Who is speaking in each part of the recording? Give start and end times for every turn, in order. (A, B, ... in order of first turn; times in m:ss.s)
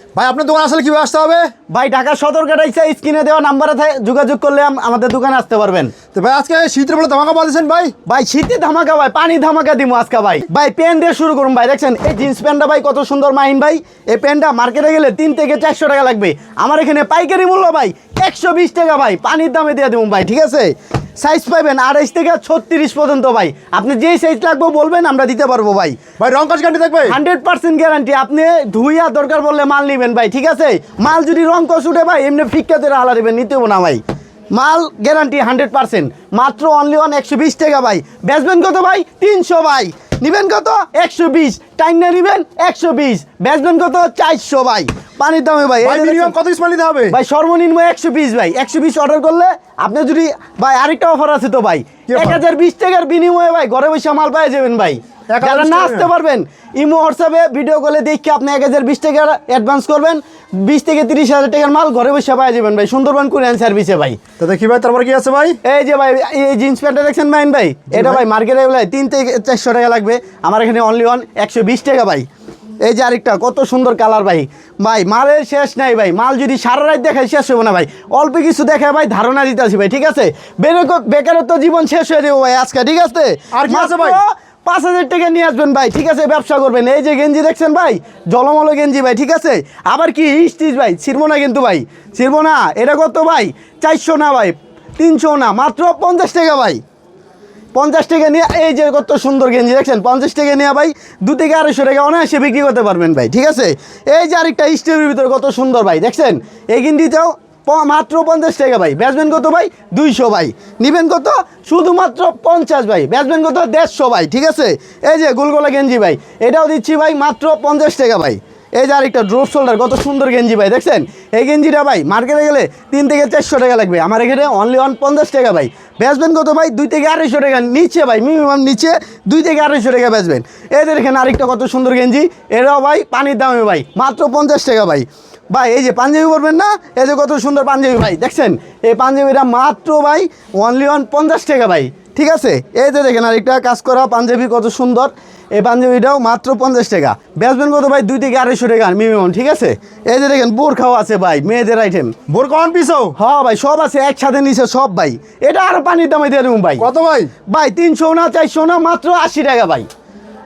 0:00.1-0:01.5 A
0:01.7-0:05.9 B
0:06.1-0:07.9 A
0:08.0-0:26.0 B
0:26.2-0:27.2 A
0:27.1-0:34.0 B
0:34.5-0:46.3 B
0:45.8-0:47.2 A
0:47.1-1:04.2 B
0:52.1-0:52.4 A
0:55.3-0:56.1 A
1:04.4-1:05.6 A
1:05.6-1:12.2 B
1:07.9-1:08.2 A
1:12.8-1:36.8 B
1:23.5-1:24.2 A
1:37.7-2:32.1 B
2:32.3-2:33.1 A
2:33.2-2:36.8 B
2:36.8-2:37.3 A
2:37.5-2:39.9 B